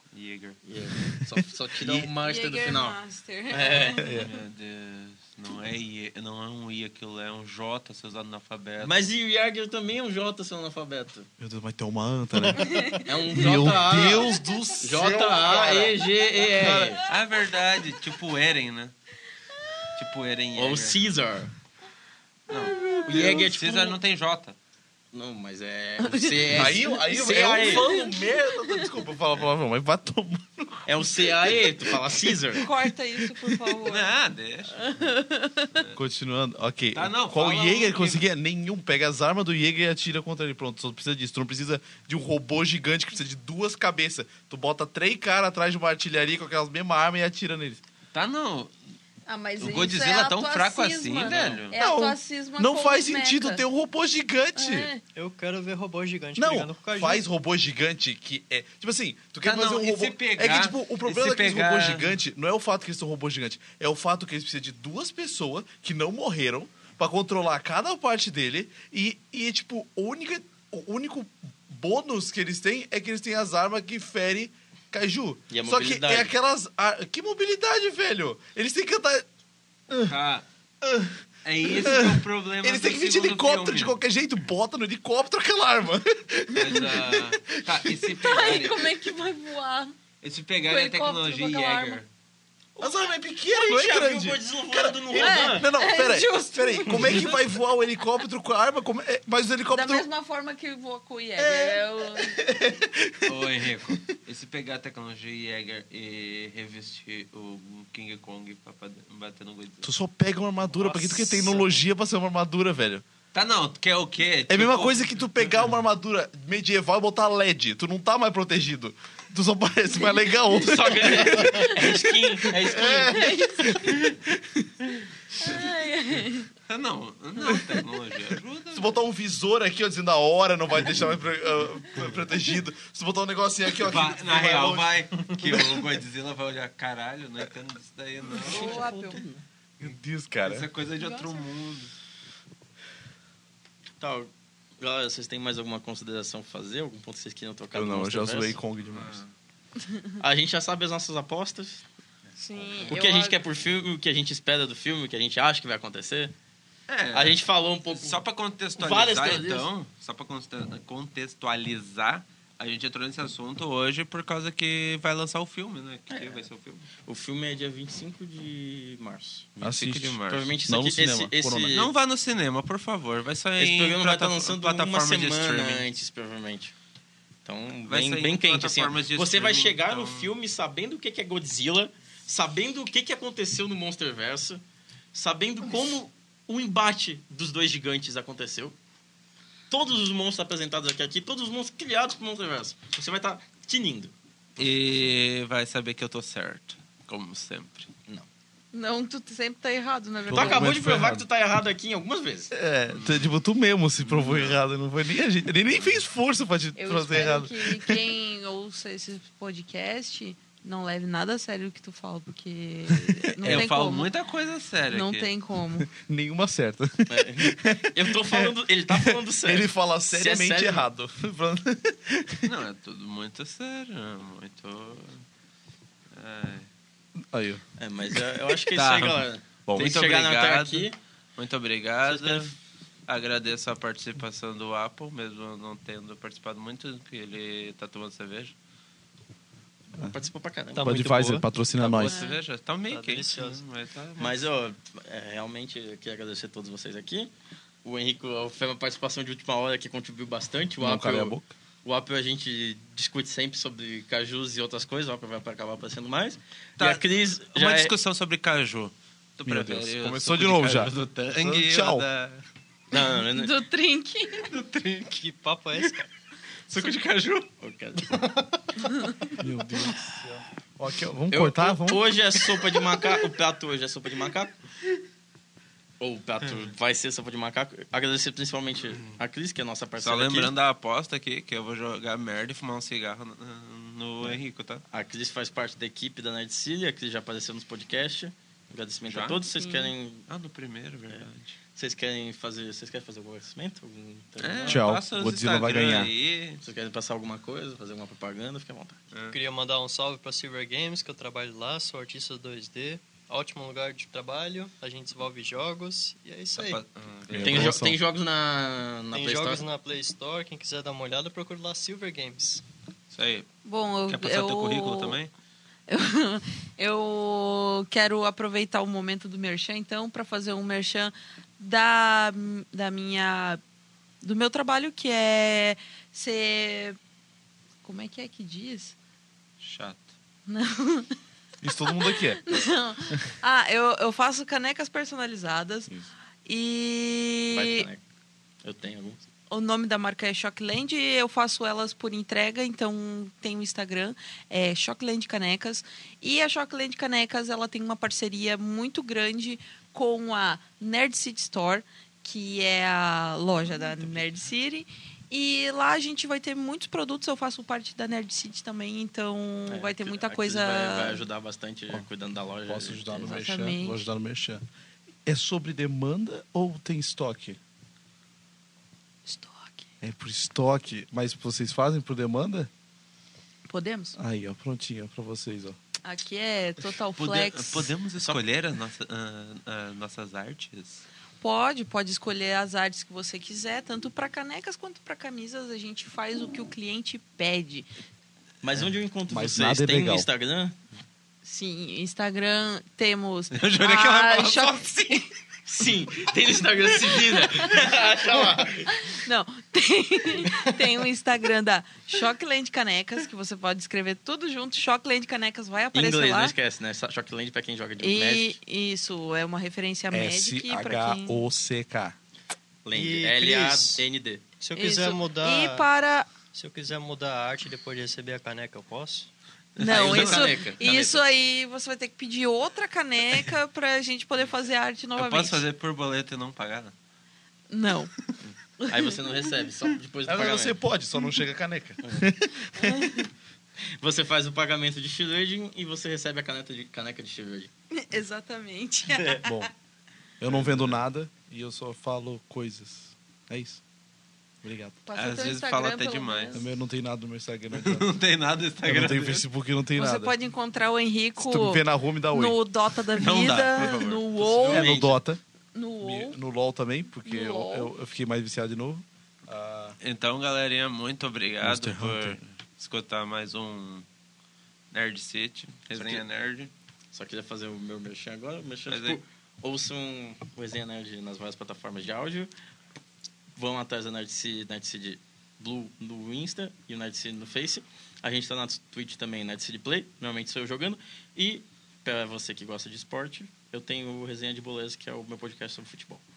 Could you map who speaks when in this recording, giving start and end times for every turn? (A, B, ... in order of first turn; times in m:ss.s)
0:00.1-0:00.6 A
0:00.6-0:03.0 B
0:02.1-0:04.2 C
0:03.5-0:04.0 B
0:04.0-0:04.3 D
0:04.2-0:09.0 A
0:08.8-0:11.3 B
0:11.4-0:16.0 D
0:12.5-0:13.2 C
0:13.0-0:17.0 B
0:16.5-0:17.0 D
0:17.0-0:18.9 A
0:19.9-0:21.0 A
0:20.5-0:21.5 B
0:22.5-0:23.4 C
0:22.5-0:24.6 A
0:23.1-0:24.0 B
0:25.1-0:27.9 B
0:26.0-0:28.9 C
0:26.5-0:33.8 D
0:30.9-0:32.6 B
0:32.6-0:34.1 C
0:33.9-0:35.1 A
0:34.7-0:35.9 C
0:36.0-0:47.8 D
0:37.0-0:38.2 A
0:48.1-0:48.7 A
0:49.3-0:53.6 C
0:49.6-0:51.8 A
0:51.8-0:54.9 D
0:54.6-0:55.0 C
0:55.2-0:57.2 E
0:56.4-1:19.3 D
0:59.4-1:02.1 A
1:15.5-1:16.3 B
1:19.9-1:20.2 D
1:20.0-1:20.4 A
1:20.8-1:28.2 D
1:21.4-1:24.0 A
1:26.5-1:26.8 C
1:26.6-1:29.1 A
1:28.2-1:30.0 C
1:30.2-1:32.1 A
1:30.6-1:32.0 C
1:32.8-1:40.1 D
1:33.5-1:35.7 B
1:35.1-1:37.6 C
1:36.9-1:37.4 A
1:39.7-1:42.4 C
1:41.4-1:44.0 D
1:43.3-1:49.9 A
1:49.8-1:53.0 D
1:50.8-1:51.8 E
1:53.3-1:55.6 A
1:54.5-2:04.8 D
2:00.5-2:03.4 B
2:03.1-2:04.0 C
2:05.4-2:06.5 C
2:06.7-2:09.0 A
2:08.7-2:14.9 D
2:13.8-2:18.9 A
2:18.4-2:19.2 C
2:18.4-2:19.4 B
2:19.8-2:20.7 D
2:20.4-2:21.9 A
2:21.0-2:21.5 C
2:24.0-2:28.6 B
2:27.7-2:29.2 D
2:28.8-2:29.3 A
2:30.2-2:31.8 B
2:32.4-2:33.4 C
2:32.9-2:36.3 B
2:36.9-2:46.9 A
2:37.1-2:38.2 B
2:38.8-2:39.7 B
2:46.1-2:49.5 B
2:49.6-2:50.5 A
2:49.6-2:51.7 D
2:50.3-2:51.9 B
2:51.7-2:55.8 A
2:53.6-2:56.7 B
2:57.4-3:04.6 B
2:57.9-3:00.3 A
3:05.1-3:08.8 B
3:09.7-3:14.1 B
3:14.6-3:17.9 A
3:18.7-3:20.8 C
3:20.3-3:21.2 D
3:20.3-3:22.5 B
3:22.5-3:28.0 D
3:22.9-3:23.3 A
3:24.0-3:24.6 A
3:26.8-3:34.1 C
3:32.9-3:33.7 D
3:33.4-3:35.3 A
3:34.9-3:35.9 C
3:35.8-3:42.5 D
3:37.1-3:40.9 B
3:42.4-3:45.2 A
3:46.1-3:46.7 A
3:47.3-3:47.6 D
3:47.8-3:51.0 B
3:48.8-3:52.5 A
3:49.7-3:49.9 D
3:52.1-3:52.5 B
3:53.1-3:58.5 A
4:00.0-4:01.1 B
4:00.7-4:01.4 E
4:00.8-4:02.2 D
4:01.8-4:04.4 A
4:02.0-4:02.4 C
4:02.9-4:03.6 E
4:04.2-4:07.3 B
4:07.8-4:17.9 B
4:10.8-4:11.5 D
4:16.8-4:22.4 A
4:19.4-4:22.1 D
4:22.9-4:23.6 B
4:23.3-4:24.5 C
4:24.4-4:25.2 A
4:25.2-4:26.1 E
4:26.7-4:27.5 A
4:27.6-4:28.2 B
4:28.8-4:29.4 C
4:29.4-4:32.1 D
4:31.3-4:34.5 B
4:36.0-4:40.5 B
4:40.0-4:44.8 A
4:44.9-4:50.3 B
4:49.1-4:49.5 A
4:49.6-4:49.9 C
4:50.3-4:51.6 A
4:51.1-4:54.9 B
4:54.4-4:56.6 A
4:54.6-4:56.1 D
4:56.6-4:59.0 B
4:59.1-4:59.4 A
4:59.3-5:06.8 E
5:06.6-5:07.8 A
5:07.3-5:08.0 D
5:07.4-5:09.7 B
5:09.1-5:12.6 E
5:13.1-5:13.5 A
5:13.6-5:15.2 C
5:14.1-5:15.3 A
5:15.9-5:23.6 C
5:24.2-5:27.0 C
5:27.8-5:29.0 C
5:29.6-5:30.1 A
5:30.5-5:31.2 C
5:31.6-5:33.2 D
5:31.8-5:35.9 C
5:36.4-5:37.9 C
5:37.5-5:38.0 B
5:38.6-5:39.2 B
5:39.5-6:01.2 C
5:59.7-6:03.4 B
6:02.7-6:04.6 D
6:03.2-6:04.0 C
6:05.3-6:07.6 D
6:09.3-6:09.9 C
6:10.0-6:12.7 D
6:13.7-6:14.2 C
6:14.2-6:15.8 D
6:16.0-6:17.9 C
6:17.2-6:21.0 A
6:21.4-6:27.9 C
6:28.6-6:30.8 B
6:29.3-6:30.3 D
6:31.4-6:35.3 C
6:33.5-6:35.3 A
6:35.7-6:39.1 B
6:38.9-6:46.6 C
6:40.4-6:40.8 B
6:45.9-6:48.6 B
6:48.0-6:51.4 C
6:50.1-6:52.2 D
6:52.8-6:54.4 B
6:52.9-6:54.0 E
6:54.6-6:55.9 E
6:54.8-6:56.3 C
6:56.5-6:59.3 E
6:59.8-7:01.2 B
6:59.8-7:05.6 C
6:59.8-7:00.5 A
7:05.2-7:06.9 A
7:07.7-7:08.1 C
7:08.4-7:10.8 B
7:08.8-7:09.2 C
7:10.3-7:13.1 D
7:12.8-7:13.3 C
7:14.0-7:17.7 B
7:17.9-7:19.6 C
7:19.4-7:19.7 D
7:20.4-7:23.8 D
7:20.5-7:21.0 A
7:24.6-7:25.0 D
7:25.1-7:26.7 C
7:25.2-7:26.5 A
7:26.5-7:28.1 D
7:27.7-7:29.4 A
7:28.8-7:30.3 D
7:30.0-7:35.1 C
7:31.4-7:32.6 D
7:33.1-7:35.2 A
7:34.6-7:35.4 D
7:35.8-7:36.4 C
7:36.0-7:40.0 D
7:37.2-7:37.9 C
7:40.0-7:44.1 A
7:41.6-7:42.4 D
7:44.9-7:46.7 A
7:45.9-7:46.2 B
7:47.1-7:52.5 B
7:48.9-7:49.2 A
7:53.6-8:06.2 B